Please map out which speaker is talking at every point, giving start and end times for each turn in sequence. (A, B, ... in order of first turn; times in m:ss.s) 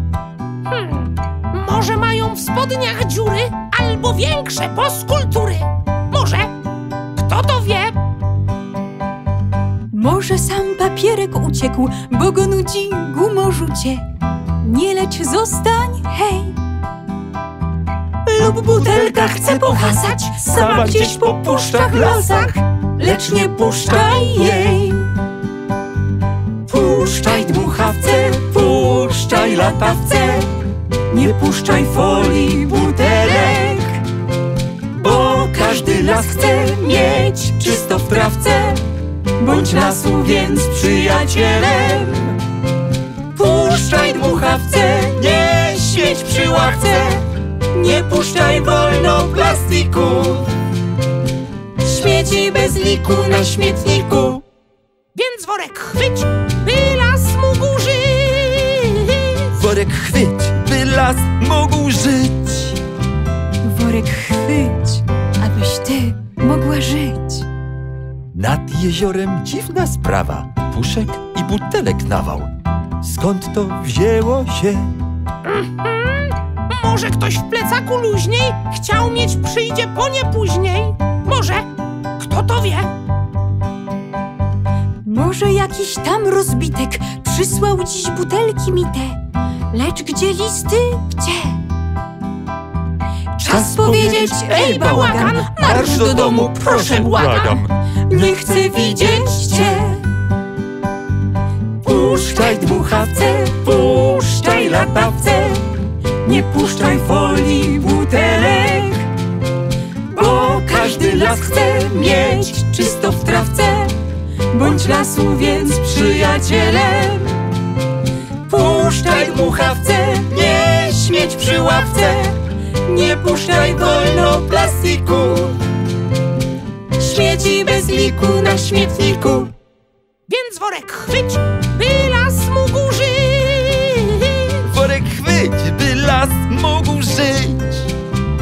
0:00.7-0:06.5 A
0:07.2-0:08.0 A
0:09.9-0:14.0 B
0:14.6-0:16.6 B
0:18.2-0:25.1 B
0:18.8-0:22.6 A
0:26.7-0:30.5 B
0:31.1-0:34.0 B
0:34.9-0:38.8 B
0:39.4-0:42.4 B
0:43.3-0:50.5 B
0:51.8-0:54.4 B
0:55.1-0:59.5 A
0:59.5-1:02.8 C
1:03.6-1:07.4 B
1:08.3-1:14.9 C
1:15.4-1:21.7 A
1:22.2-1:22.9 A
1:25.0-1:29.2 B
1:29.7-1:31.6 B
1:33.4-1:36.7 B
1:33.5-1:37.7 A
1:35.7-1:37.7 C
1:38.1-1:40.0 B
1:38.6-1:39.5 A
1:41.8-1:45.6 B
1:46.2-1:49.1 B
1:50.1-1:54.0 B
1:54.5-1:57.4 B
1:58.5-2:05.6 B
2:07.0-2:09.5 B
2:10.3-2:14.6 A
2:14.6-2:17.9 C